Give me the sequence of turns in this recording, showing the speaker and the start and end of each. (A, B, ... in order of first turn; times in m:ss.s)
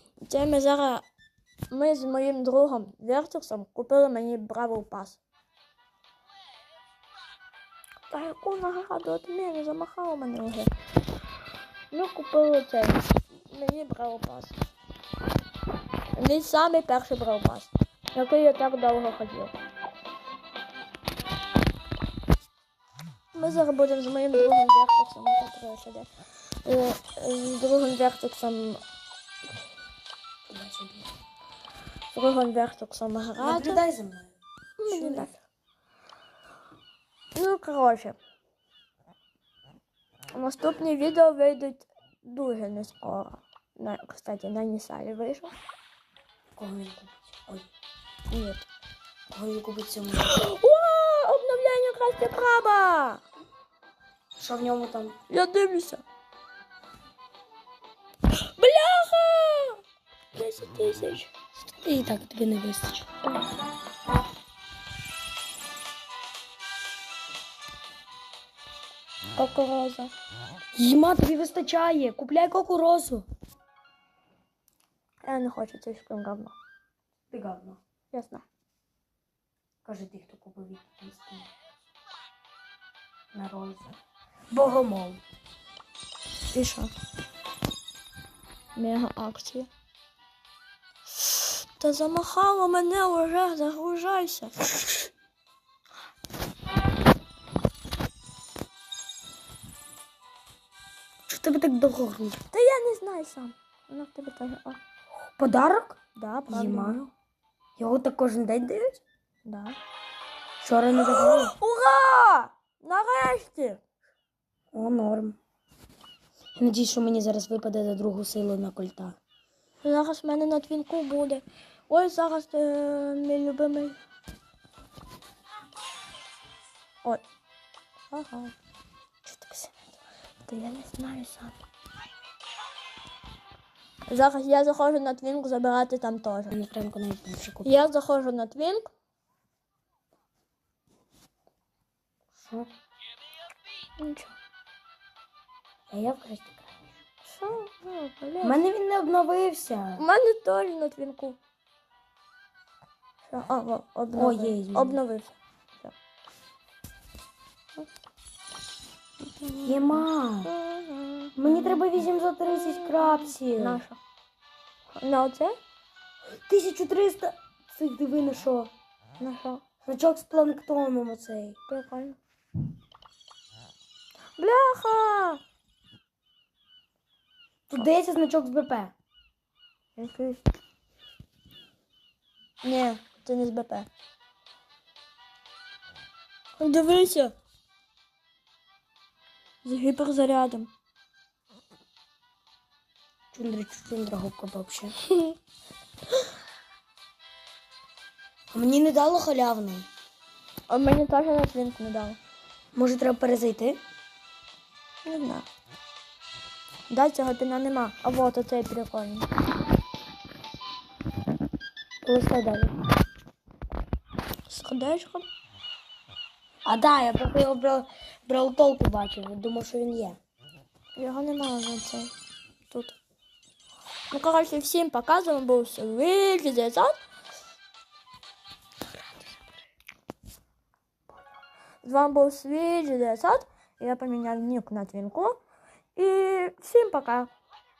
0:00.2-0:01.0 A
0:01.7-0:05.2 A
0:08.1-0:10.7 A
0:11.9-0:14.6 A
0:16.1-0:19.6 A
0:23.3-0:26.1 A
0:26.6-0:28.8 A
0:30.5-0:31.1 B
0:32.1-0:33.8 A
0:33.4-0:34.3 B
0:34.8-0:35.4 A
0:34.9-0:35.3 B
0:37.4-0:38.2 A
0:40.3-0:45.6 A
0:46.6-0:47.7 B
0:48.3-0:48.6 A
0:49.3-0:50.3 B
0:50.2-0:53.2 A
0:54.4-0:55.2 B
0:55.3-0:56.0 A
0:58.3-0:59.8 A
1:00.3-1:01.3 A
1:01.6-1:03.1 B
1:09.4-1:10.1 A
1:10.8-1:13.2 B
1:15.2-1:16.6 A
1:17.3-1:17.8 B
1:18.1-1:18.4 A
1:19.8-1:21.5 B
1:23.3-1:24.0 B
1:24.5-1:25.2 B
1:26.5-1:26.9 A
1:28.8-1:29.7 A
1:31.1-1:34.8 A
1:41.3-1:42.4 B
1:42.5-1:44.8 A
1:45.4-1:46.0 B
1:46.2-1:47.1 A
1:46.5-1:47.0 B
1:47.8-1:49.0 B
1:49.4-1:49.8 A
1:50.6-1:51.6 B
1:51.0-1:53.8 A
1:54.7-1:55.4 B
1:56.6-1:59.2 B
1:59.8-2:04.0 A
2:08.1-2:08.5 A
2:09.3-2:09.7 A
2:10.5-2:11.6 A
2:14.1-2:16.5 A
2:16.5-2:17.7 B
2:17.6-2:18.9 A
2:22.4-2:22.7 B
2:24.0-2:24.4 A
2:25.9-2:27.0 B
2:27.2-2:28.6 A
2:28.4-2:30.0 B
2:30.0-2:31.4 A
2:33.3-2:35.9 A
2:34.1-2:35.0 B
2:39.3-2:41.9 A
2:39.6-2:40.5 B
2:41.4-2:43.8 B
2:42.5-2:44.0 A
2:45.0-2:45.6 A
2:46.5-2:48.7 B
2:49.2-2:49.6 A
2:49.8-2:51.6 B
2:51.7-2:52.2 A
2:54.4-2:55.4 A
2:57.7-2:58.9 B
3:00.0-3:00.4 A
3:02.6-3:03.9 A
3:06.6-3:07.4 A
3:09.6-3:10.7 A
3:13.3-3:14.9 B
3:18.5-3:19.9 B
3:20.7-3:22.2 A
3:22.8-3:23.8 B
3:25.0-3:25.5 A
3:26.9-3:29.3 A
3:32.0-3:32.8 B
3:34.5-3:35.3 A
3:36.6-3:40.2 B
3:41.0-3:42.1 A
3:42.7-3:43.0 A
3:44.1-3:47.0 A
3:51.8-3:55.4 A
3:56.0-3:57.3 A